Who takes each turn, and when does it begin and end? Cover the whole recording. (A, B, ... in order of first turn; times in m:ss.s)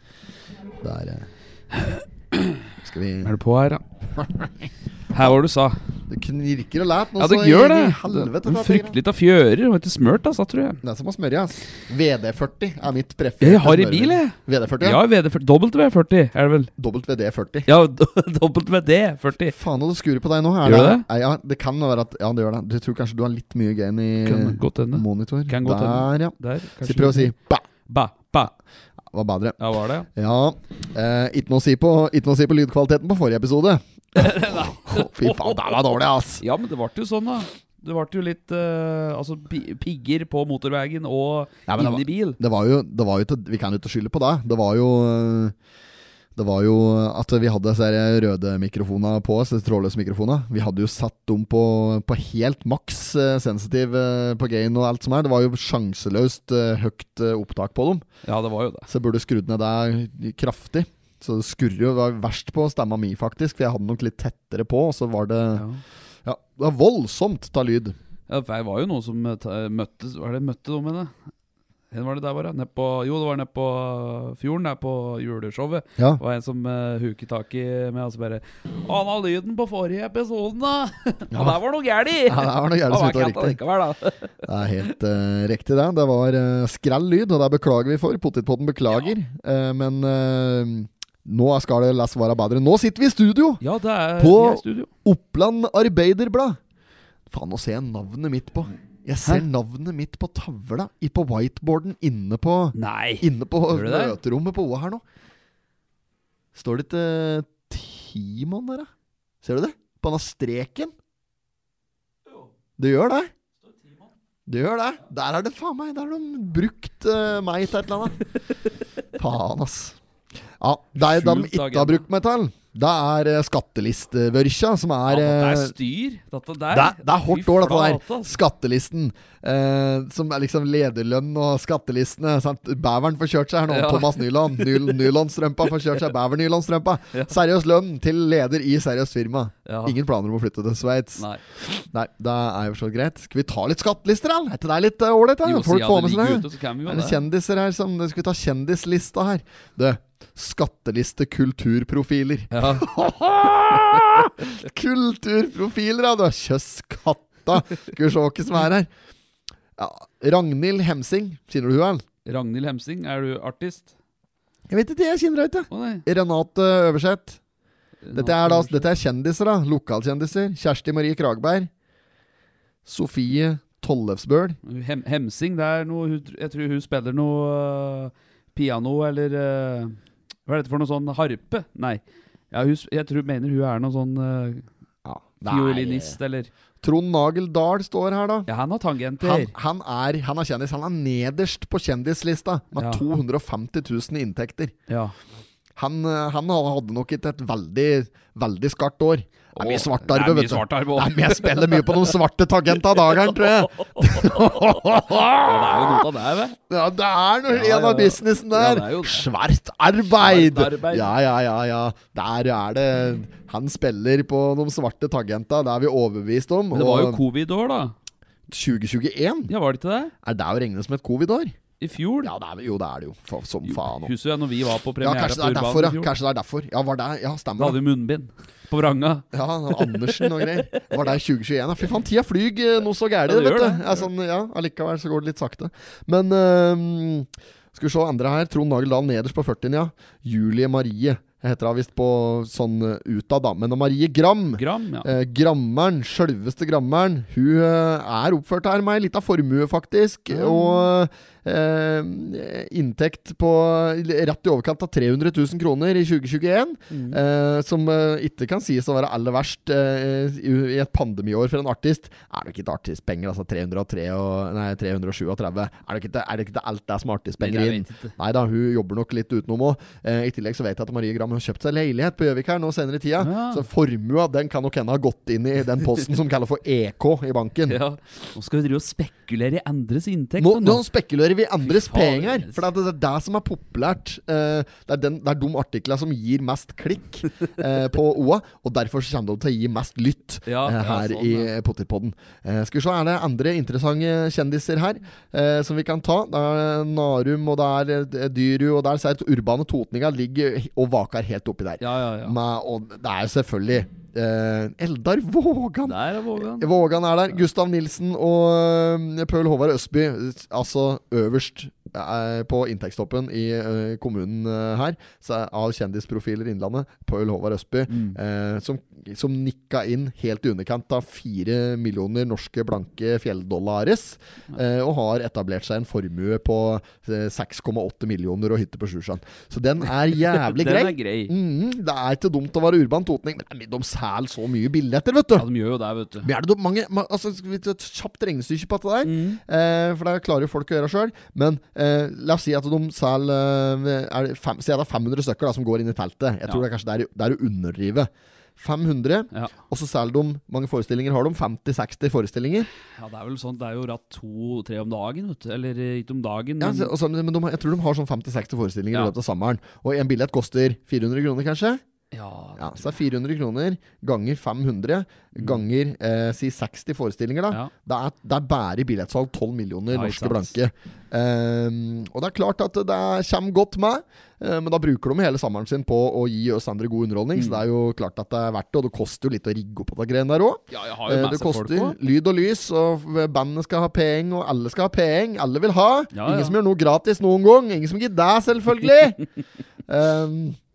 0:00.8-0:01.3 A
0:01.7-0:02.7 B
0:02.8-0:03.3 A
0:03.2-0:03.8 B
0:04.2-0:05.4 A
0:05.1-0:05.8 B
0:06.1-0:09.0 A
0:07.2-0:10.8 B
0:10.8-0:15.0 A
0:13.4-0:16.7 B
0:16.8-0:17.7 A
0:17.7-0:19.6 B
0:19.5-0:27.6 A
0:20.6-0:21.0 B
0:24.2-0:27.3 B
0:27.8-0:28.5 B
0:29.1-0:29.6 A
0:29.6-0:30.1 B
0:30.1-0:36.4 A
0:34.2-0:35.8 B
0:36.4-0:42.4 B
0:41.7-0:45.5 A
0:46.4-0:58.0 A
0:58.2-0:58.9 B
0:58.9-1:05.6 A
1:05.5-1:05.8 B
1:06.2-1:08.0 A
1:08.3-1:11.1 B
1:11.9-1:24.3 B
1:21.3-1:21.6 A
1:22.3-1:23.6 A
1:24.4-1:33.6 A
1:28.9-1:29.1 B
1:33.6-1:34.9 B
1:34.2-1:36.6 A
1:37.3-1:45.0 A
1:42.7-1:44.2 B
1:46.5-1:48.9 A
1:49.4-1:50.9 A
1:52.8-1:53.3 A
1:53.7-1:54.1 B
1:54.5-1:58.2 A
1:59.2-2:00.0 A
2:00.6-2:05.7 A
2:01.0-2:02.0 B
2:05.1-2:08.4 B
2:06.7-2:38.9 A
2:13.7-2:15.1 B
2:19.6-2:20.0 B
2:21.2-2:21.4 B
2:25.4-2:27.2 B
2:32.5-2:32.9 B
2:39.8-2:42.0 A
2:42.2-2:43.9 B
2:44.7-2:47.4 A
2:45.7-2:46.0 B
2:48.0-2:48.9 B
2:48.1-2:51.7 A
2:52.8-2:54.6 A
2:54.6-3:04.6 B
3:05.0-3:06.2 A
3:05.4-3:06.5 B
3:06.8-3:08.5 A
3:08.5-3:09.5 B
3:09.2-3:14.7 A
3:12.8-3:13.0 B
3:14.9-3:15.1 B
3:15.8-3:26.0 A
3:19.6-3:22.2 B
3:22.7-3:26.6 B
3:26.7-3:37.2 A
3:27.5-3:29.3 B
3:30.2-3:31.1 B
3:36.7-3:37.9 B
3:38.5-3:39.5 A
3:39.5-3:40.1 B
3:40.2-3:41.5 A
3:41.8-3:42.3 B
3:42.2-3:44.1 A
3:43.6-3:46.1 B
3:45.0-3:47.8 A
3:47.6-3:51.1 B
3:49.3-4:37.8 A
3:53.2-3:54.1 B
4:04.6-4:05.1 B
4:10.3-4:10.9 B
4:16.9-4:17.2 B
4:27.4-4:28.1 B
4:33.2-4:33.6 B
4:37.6-4:40.8 B
4:40.4-5:35.5 A
4:41.6-4:42.7 B
4:50.4-4:51.5 B
5:01.8-5:02.4 B
5:05.8-5:06.7 B
5:17.9-5:18.2 B
5:30.1-5:31.3 B
5:35.4-5:36.3 B
5:36.2-5:52.7 A
5:39.0-5:39.4 B
5:52.9-5:56.9 B
5:56.6-6:01.8 A
6:02.1-6:02.9 B
6:02.6-6:29.2 A
6:05.4-6:05.6 B
6:09.9-6:10.5 B
6:17.3-6:17.6 B
6:20.7-6:22.0 B
6:26.1-6:26.6 B
6:29.9-6:30.6 A